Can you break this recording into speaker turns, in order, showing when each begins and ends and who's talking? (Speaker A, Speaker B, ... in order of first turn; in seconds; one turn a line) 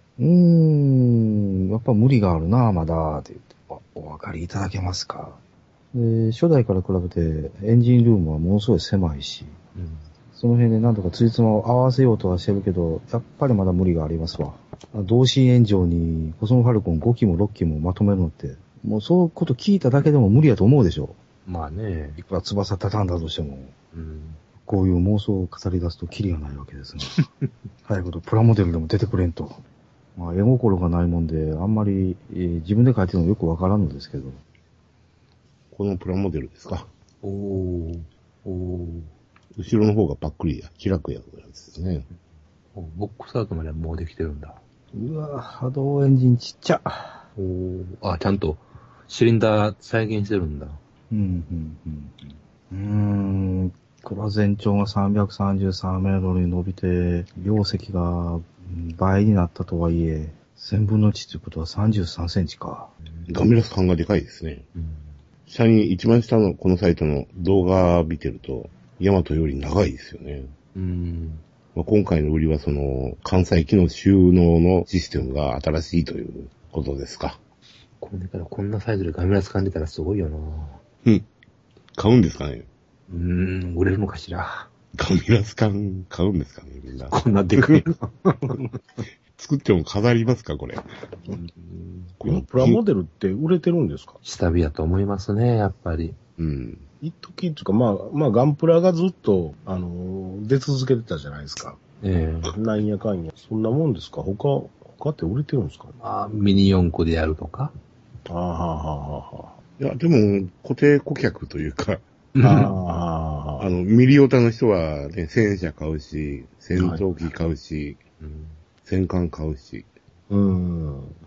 Speaker A: 0.2-5.4
Speaker A: 5.9-9.6
Speaker B: 9.8-10.1
Speaker A: 10.3-21.2
Speaker B: 21.5-22.2
Speaker A: 22.2-23.7
Speaker B: 23.9-24.4
Speaker A: 24.6-27.1
Speaker A: 27.9-29.6
Speaker A: 30.1-34.4
Speaker C: 35.7-36.9
Speaker B: 37.2-39.1
Speaker C: 39.6-42.1
Speaker B: 42.8-44.6
Speaker A: 44.9-47.2
Speaker B: 47.4-50.8
Speaker A: 51.1-62.9
Speaker C: 63.3-64.7
Speaker B: 64.8-65.1
Speaker C: 65.5-70.5
Speaker B: 70.8-71.4
Speaker C: 71.8-77.4
Speaker B: 78.0-80.8
Speaker C: 82.0-82.7
Speaker B: 83.1-84.7
Speaker C: 85.0-87.8
Speaker B: 87.1-88.3
Speaker C: 89.4-90.8
Speaker B: 91.2-92.1
Speaker C: 92.2-92.8
Speaker D: 92.3-94.2
Speaker B: 94.2-96.2
Speaker C: 96.4-96.8
Speaker D: 97.0-101.8
Speaker B: 102.0-102.5
Speaker D: 102.5-105.9
Speaker B: 106.0-107.7
Speaker D: 108.3-109.6
Speaker C: 109.8-112.7
Speaker B: 112.3-112.7
Speaker D: 112.4-113.7
Speaker C: 113.6-118.0
Speaker D: 116.7-117.0
Speaker B: 118.2-118.6
Speaker C: 118.8-119.9
Speaker D: 120.3-121.2